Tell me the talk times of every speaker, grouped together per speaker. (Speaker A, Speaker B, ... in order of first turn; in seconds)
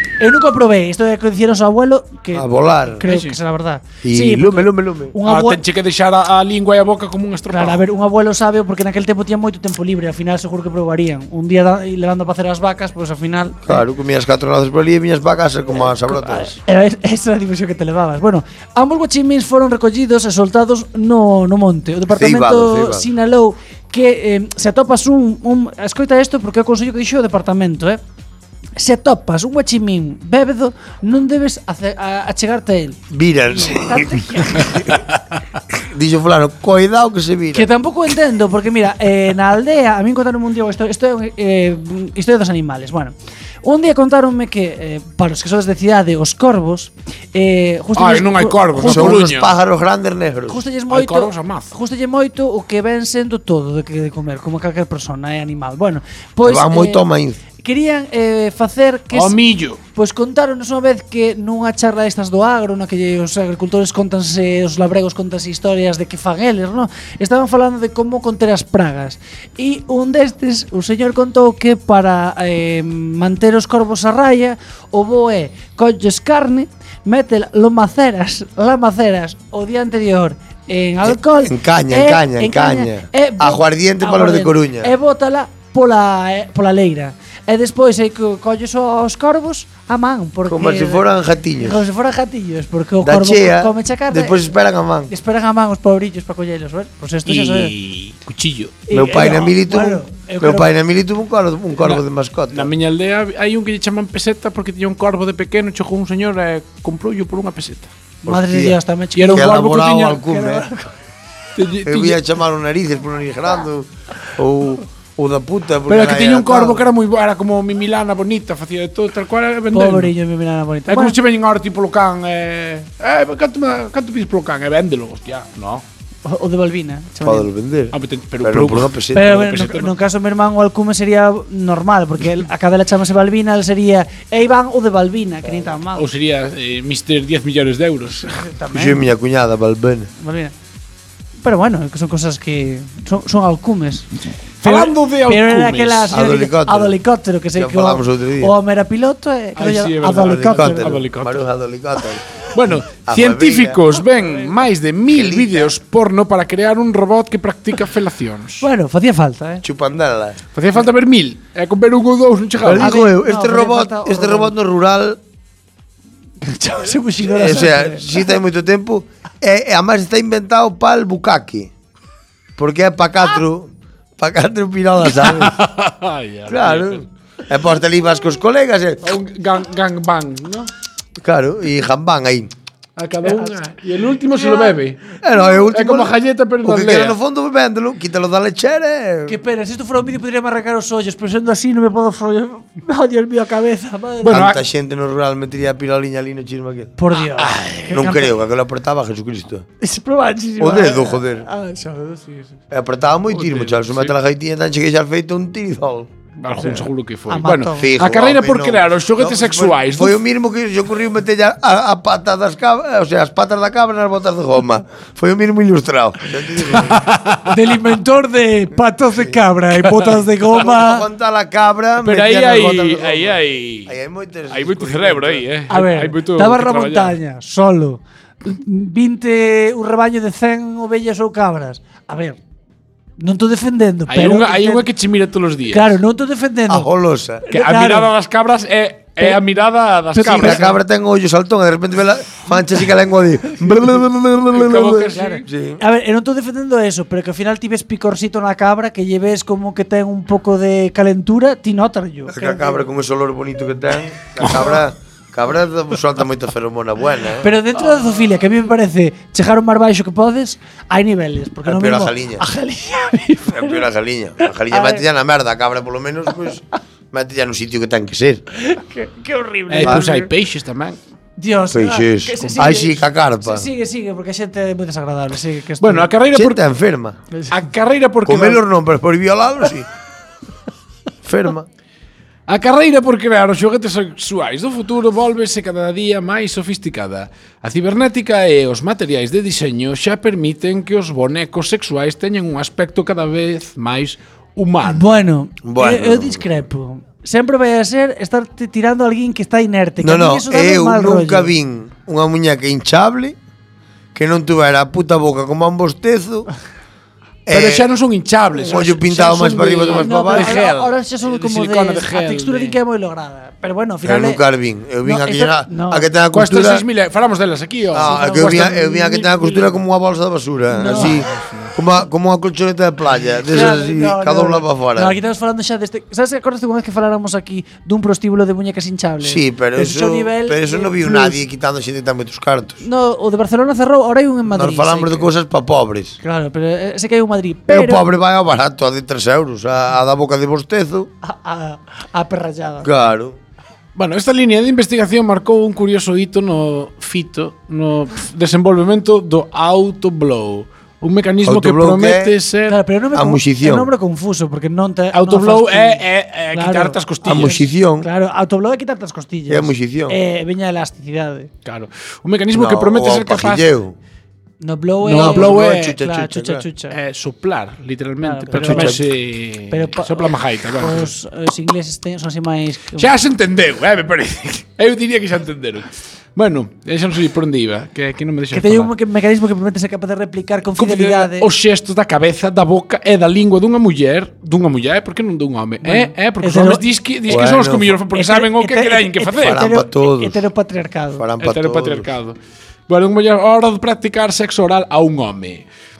Speaker A: 0.2-5.6, 7.5-13.8, 16.0-28.0, 28.8-34.8, 37.5-49.2, 50.5-57.0, 57.6-59.4, 60.0-94.5, 95.1-97.7, 98.9-100.7, 108.2-110.9, 119.7-121.2, 126.2-127.5, 129.1-136.1, 138.3-139.0, 140.2-140.5, 141.4-144.1, 144.6-150.9, 158.6-159.6, 162.7-164.5, 166.4-168.3, 183.2-183.6, 184.3-184.8, 189.3-194.4, 197.0-198.3, 199.8-202.5, 206.6-207.9, 217.5-221.1, 225.7-232.4, 233.2-234.9, 235.7-236.9, 237.4-238.1, 240.1-240.8, 245.2-252.8, 257.4-263.9, 264.4-265.0, 268.6-270.3, 271.4-276.1, 294.9-301.5, 309.9-314.4, 315.0-316.1, 318.0-319.3, 320.7-321.2, 323.5-331.4, 332.8-335.3, 336.2-338.1, 341.2-342.9, 352.7-361.5, 364.6-366.9, 368.2-369.0, 369.7-373.1, 378.5-381.5, 385.8-386.8, 388.1-391.2
Speaker B: 2.3-3.0, 4.0-5.2, 13.7-16.6, 22.1-23.1, 33.1-34.8, 35.7-37.7, 48.8-50.6, 56.4-57.4, 81.0-84.9, 90.5-91.8, 93.0-95.1, 98.9-102.7, 108.2-108.8, 109.3-110.7, 111.8-116.9, 127.2-129.4, 138.7-140.1, 146.1-147.0, 147.5-148.5, 150.1-152.2, 152.9-153.8, 155.1-155.7, 159.6-160.4, 162.6-165.2, 167.2-171.7, 172.6-175.6, 176.5-179.1, 181.2-182.5, 185.2-189.4, 194.3-196.9, 197.9-199.7, 200.6-201.5, 202.7-206.1, 207.8-217.0, 220.5-225.4, 236.7-237.4, 240.2-245.8, 252.3-257.5, 261.7-262.4, 263.5-268.4, 269.8-270.1, 271.7-273.7, 276.3-277.2, 278.2-279.9, 281.2-281.7, 295.6-296.4, 300.0-303.4, 304.1-306.5, 307.5-307.9, 308.6-310.9, 314.1-316.8, 317.9-325.2, 329.2-332.8, 334.5-336.2, 337.7-341.1, 342.8-343.4, 351.4-352.4, 353.1-353.9, 357.2-358.1, 359.5-360.2, 362.5-364.0, 365.1-366.6, 368.6-369.0, 387.3-388.0, 389.4-390.4, 391.2-392.1
Speaker C: 3.1-3.4, 5.2-7.8, 48.0-49.5, 50.9-51.7, 59.1-59.8, 97.3-98.8, 101.8-107.9, 109.2-109.9, 111.5-112.2, 115.9-120.1, 120.9-125.8, 127.9-129.9, 135.9-138.4, 144.6-146.2, 149.6-151.4, 152.5-158.7, 160.6-163.1, 175.1-177.1, 179.0-180.7, 183.0-187.2, 194.2-194.6, 197.2-198.2, 203.3-204.1, 206.4-210.2, 216.8-217.5, 222.0-223.9, 224.5-227.2, 234.1-236.0, 237.5-240.7, 244.5-245.5, 254.4-254.8, 269.7-271.0, 275.8-276.6, 277.5-278.6, 282.5-295.1, 307.5-312.8, 316.3-319.6, 320.9-321.7, 344.0-352.8, 355.1-357.6, 361.6-363.7, 365.0-366.0, 366.9-371.1, 373.0-378.9, 380.8-389.6, 391.4-392.4, 392.9-395.7